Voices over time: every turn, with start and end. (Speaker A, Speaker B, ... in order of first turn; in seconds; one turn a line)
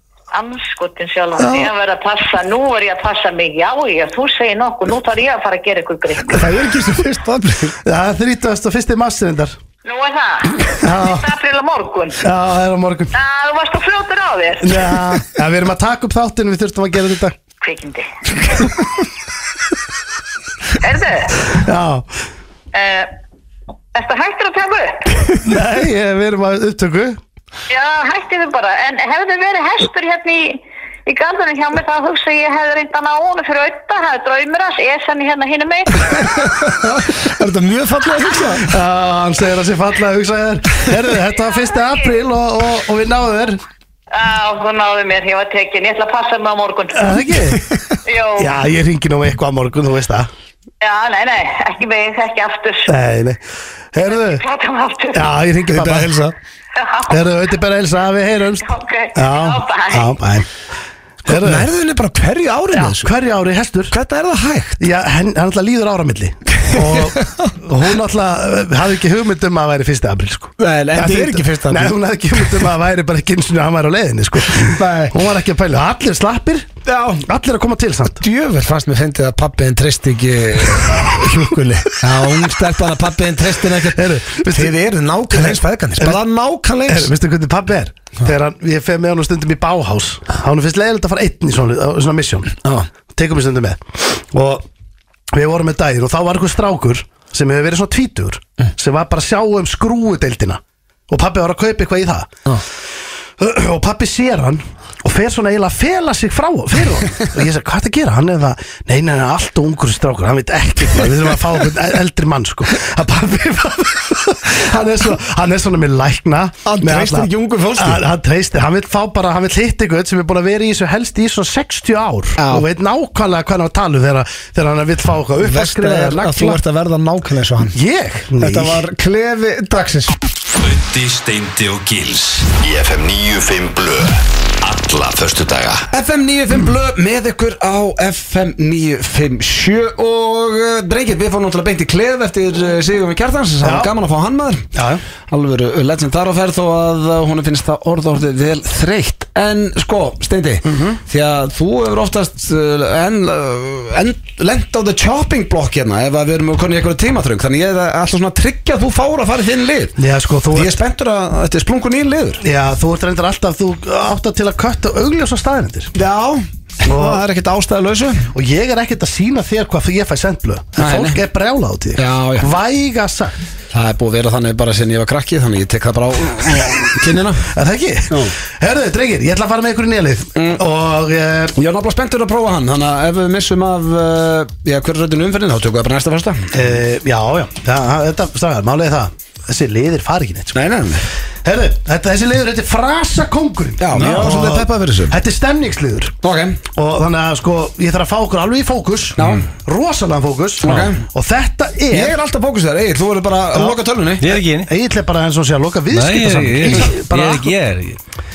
Speaker A: 0.3-6.4
Speaker B: 1.4-1.7
Speaker C: 6.3-7.8
Speaker B: 7.8-9.6
Speaker A: 9.8-12.2
Speaker B: 10.8-11.3
Speaker B: 12.2-13.1
Speaker A: 13.1-15.0
Speaker B: 14.6-17.4
Speaker A: 17.6-18.1
Speaker A: 20.8-21.4
Speaker B: 21.5-22.1
Speaker A: 22.7-23.1
Speaker A: 23.9-25.3
Speaker B: 25.4-27.2
Speaker A: 27.7-36.4
Speaker C: 36.1-38.7
Speaker B: 38.7-43.6
Speaker A: 41.3-42.1
Speaker A: 44.1-47.4
Speaker B: 46.9-47.6
Speaker A: 48.1-48.5
Speaker B: 48.4-50.3
Speaker A: 50.8-52.9
Speaker B: 52.9-53.4
Speaker B: 53.9-54.4
Speaker A: 54.0-55.3
Speaker B: 55.1-56.2
Speaker C: 55.7-56.4
Speaker A: 56.8-57.2
Speaker B: 57.1-60.5
Speaker A: 58.6-60.2
Speaker B: 61.2-61.7
Speaker C: 61.3-63.1
Speaker B: 62.7-63.9
Speaker C: 63.9-64.8
Speaker B: 64.8-76.7
Speaker C: 66.7-67.5
Speaker C: 70.6-72.7
Speaker C: 74.5-75.2
Speaker C: 76.8-77.3
Speaker B: 77.2-78.2
Speaker C: 78.2-81.3
Speaker B: 80.8-82.4
Speaker C: 82.0-87.1
Speaker B: 83.9-84.8
Speaker B: 85.3-86.2
Speaker B: 86.9-94.7
Speaker B: 95.3-102.3
Speaker B: 103.4-126.6
Speaker C: 116.7-118.0
Speaker C: 122.4-122.7
Speaker C: 125.4-127.8
Speaker B: 127.7-128.8
Speaker C: 128.3-130.2
Speaker D: 130.6-135.9
Speaker C: 135.9-144.7
Speaker B: 143.6-143.9
Speaker B: 144.7-145.0
Speaker C: 145.3-160.0
Speaker B: 150.7-151.0
Speaker B: 160.0-160.8
Speaker C: 160.5-162.4
Speaker B: 162.4-165.9
Speaker C: 165.9-168.3
Speaker B: 166.8-167.2
Speaker B: 168.3-173.3
Speaker C: 170.8-171.2
Speaker C: 172.0-172.5
Speaker C: 173.7-177.5
Speaker B: 177.4-181.6
Speaker C: 181.6-186.7
Speaker B: 186.5-190.6
Speaker C: 190.5-191.1
Speaker B: 191.4-196.1
Speaker C: 193.8-195.2
Speaker C: 196.2-196.6
Speaker B: 196.7-202.2
Speaker C: 199.2-199.5
Speaker C: 200.6-201.0
Speaker C: 201.9-204.4
Speaker B: 203.5-203.8
Speaker E: 204.2-204.7
Speaker B: 204.3-207.5
Speaker E: 205.9-208.0